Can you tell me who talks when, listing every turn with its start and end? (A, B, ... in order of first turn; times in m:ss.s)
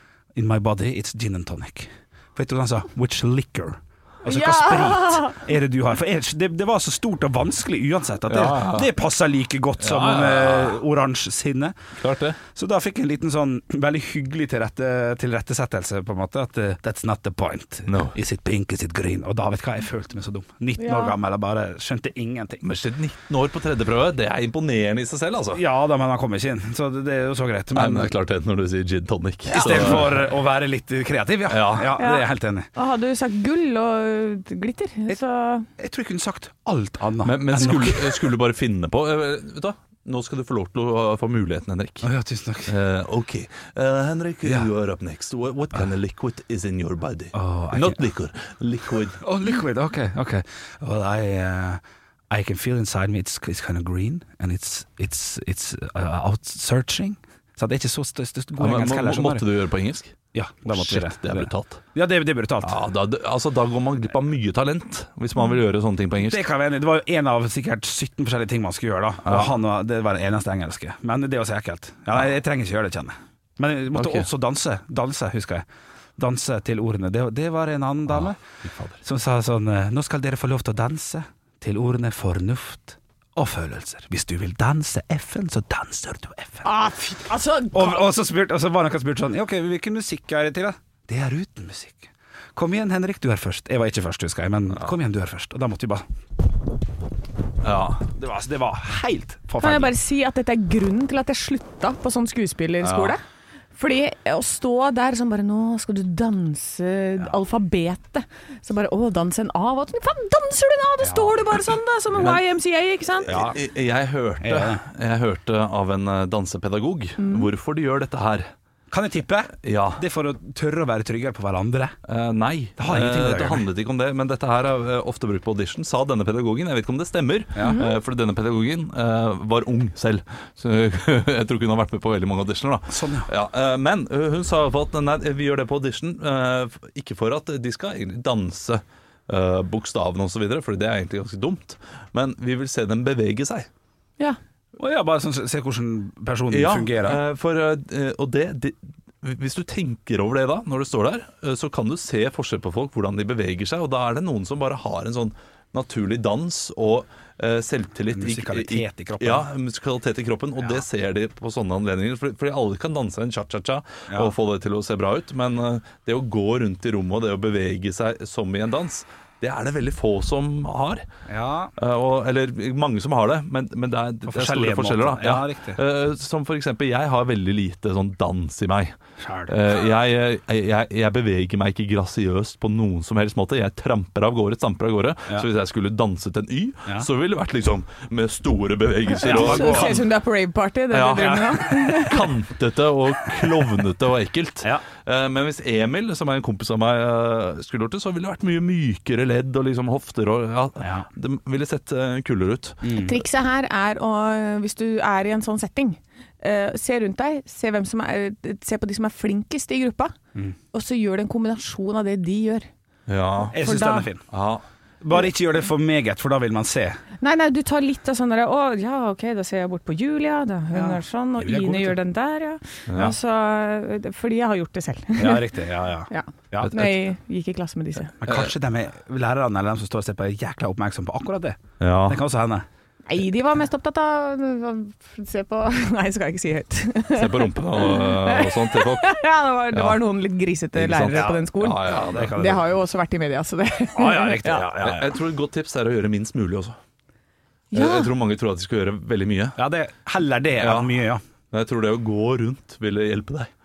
0:00.3-0:11.8 A
0:04.3-0:05.4 B
0:08.3-0:08.9 C
0:09.8-0:10.8 C
0:12.0-0:12.4 C
0:12.5-0:22.6 A
0:17.9-0:18.2 C
0:20.8-0:21.1 B
0:22.6-0:25.6 C
0:25.5-0:28.1 A
0:27.7-0:30.2 C
0:29.5-0:29.8 B
0:29.5-0:32.7 A
0:31.5-0:32.0 C
0:32.0-0:35.7 B
0:35.8-0:38.2 A
0:37.2-0:42.1 C
0:42.0-0:42.7 A
0:42.6-0:49.2 C
0:44.4-0:44.7 A
0:47.3-0:48.0 A
0:49.2-0:59.4 A
0:58.6-1:00.2 C
1:00.3-1:02.8 A
1:00.7-1:01.8 C
1:02.6-1:06.4 C
1:06.2-1:15.6 A
1:09.2-1:09.5 C
1:13.9-1:14.3 C
1:16.2-1:18.4 A
1:18.2-1:19.0 C
1:19.0-1:26.7 A
1:26.6-1:28.0 B
1:27.7-1:36.0 A
1:37.6-1:38.0 C
1:38.1-1:39.9 A
1:39.6-1:43.2 B
1:42.8-1:43.1 C
1:43.7-1:53.4 B
1:51.0-1:51.4 A
1:53.2-1:53.6 A
1:53.3-1:58.5 C
1:54.4-1:54.8 A
1:57.2-1:57.5 B
1:58.9-2:02.0 A
1:59.6-2:00.0 C
2:02.1-2:23.7 C
2:02.8-2:03.7 A
2:07.6-2:07.8 A
2:07.6-2:07.9 B
2:12.9-2:13.3 A
2:24.8-2:27.2 A
2:26.5-2:51.0 C
2:38.1-2:39.5 A
2:44.1-2:44.3 A
2:51.3-2:51.7 A
2:51.8-3:10.0 C
2:54.3-2:55.8 A
2:59.2-2:59.6 A
3:09.2-3:10.0 A
3:09.2-3:12.3 B
3:10.9-3:23.0 C
3:11.2-3:11.6 A
3:20.8-3:21.1 A
3:22.8-3:23.1 A
3:22.9-3:30.2 B
3:30.7-3:32.7 B
3:33.1-3:33.6 C
3:33.5-3:34.2 A
3:33.5-3:34.1 B
3:34.3-3:34.6 C
3:35.0-3:37.0 A
3:37.2-3:45.5 B
3:40.7-3:42.0 A
3:42.9-3:43.1 C
3:45.2-3:46.7 A
3:46.1-3:48.2 B
3:46.6-3:47.0 C
3:48.2-3:52.6 A
3:48.2-3:48.5 C
3:51.8-3:52.2 C
3:53.1-4:04.7 B
3:57.1-3:59.1 C
3:59.7-4:00.0 C
4:00.8-4:02.4 C
4:01.0-4:02.6 A
4:04.0-4:05.1 A
4:04.8-4:06.8 C
4:07.7-4:08.1 B
4:07.7-4:09.6 C
4:09.6-4:11.2 A
4:10.6-4:11.0 C
4:11.5-4:13.5 C